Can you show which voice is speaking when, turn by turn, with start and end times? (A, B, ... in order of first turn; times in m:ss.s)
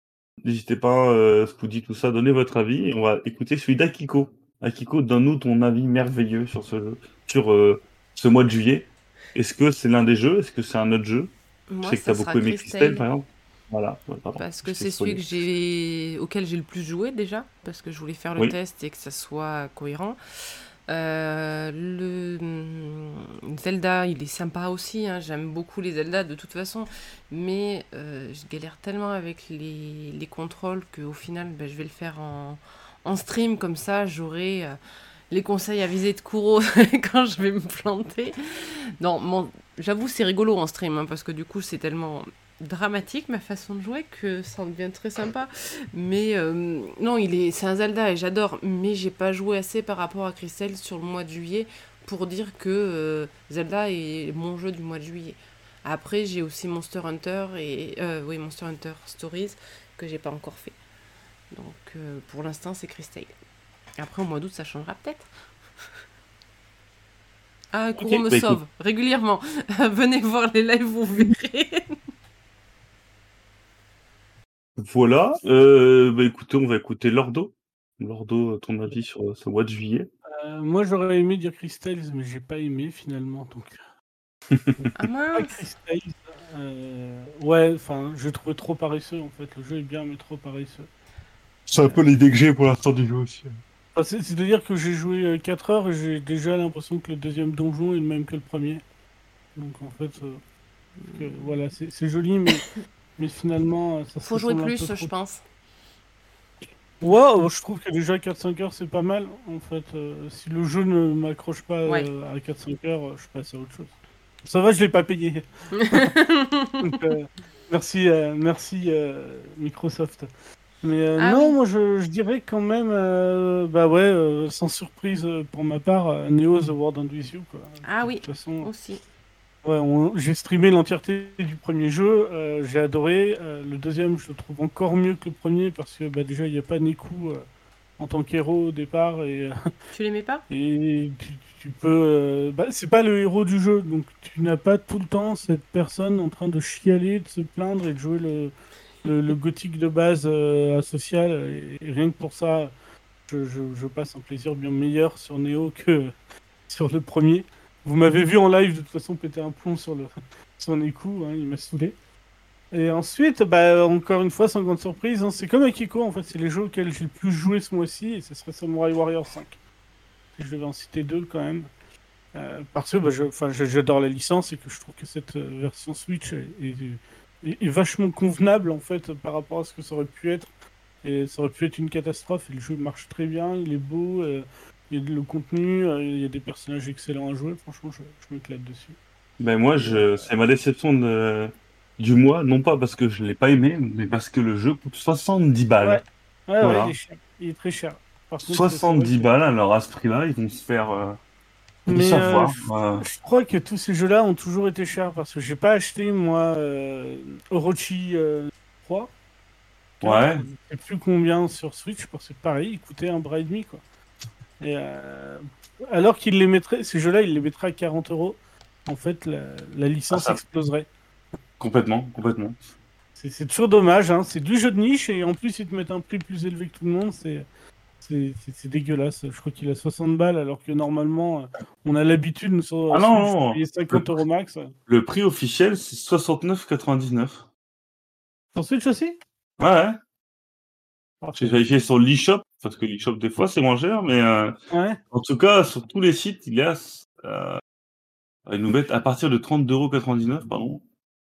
0:00.4-0:11.3 A
0:11.7-0:13.0 B
0:11.8-0:15.2 A
0:14.4-0:20.2 B
0:20.9-0:34.8 B
0:35.3-1:00.8 B
1:01.5-1:03.4 B
1:04.0-1:05.3 B
1:07.7-1:12.0 B
1:08.0-1:08.6 A
1:14.8-1:20.1 A
1:20.4-1:23.8 C
1:24.5-1:24.8 A
1:24.8-1:30.9 C
1:25.0-1:25.6 B
1:31.7-1:33.6 A
1:33.9-1:38.8 C
1:39.6-1:40.4 C
1:41.0-1:41.5 B
1:41.2-1:42.6 C
1:43.2-1:45.1 C
1:44.2-1:45.4 B
1:47.0-1:53.9 C
1:54.4-1:56.1 C
1:55.8-1:57.0 B
1:56.8-2:00.3 C
2:00.8-2:08.7 C
2:01.2-2:01.6 B
2:07.8-2:09.0 B
2:09.6-2:17.4 C
2:18.0-2:19.6 C
2:19.9-2:20.4 B
2:20.5-2:28.5 C
2:29.0-2:32.7 C
2:33.3-2:36.1 C
2:36.7-2:42.0 C
2:42.7-2:49.6 C
2:50.4-2:51.7 C
2:52.3-3:00.5 C
3:01.0-3:09.0 C
3:09.4-3:16.0 A
3:09.8-3:10.2 C
3:15.8-3:19.3 C
3:16.6-3:17.0 A
3:18.4-3:21.2 A
3:21.9-3:29.1 C
3:21.9-3:23.0 A
3:30.0-3:33.8 C
3:30.0-3:30.4 A
3:34.6-3:40.9 C
3:40.1-3:40.4 A
3:41.6-3:42.6 A
3:43.2-3:47.5 C
3:48.0-3:54.7 C
3:52.9-3:54.1 A
3:54.9-3:57.4 A
3:58.5-3:59.2 C
3:59.6-4:00.0 A
4:01.2-4:01.6 C
4:01.4-4:04.5 A
4:04.7-4:05.0 C
4:05.1-4:07.6 A
4:08.5-4:10.8 A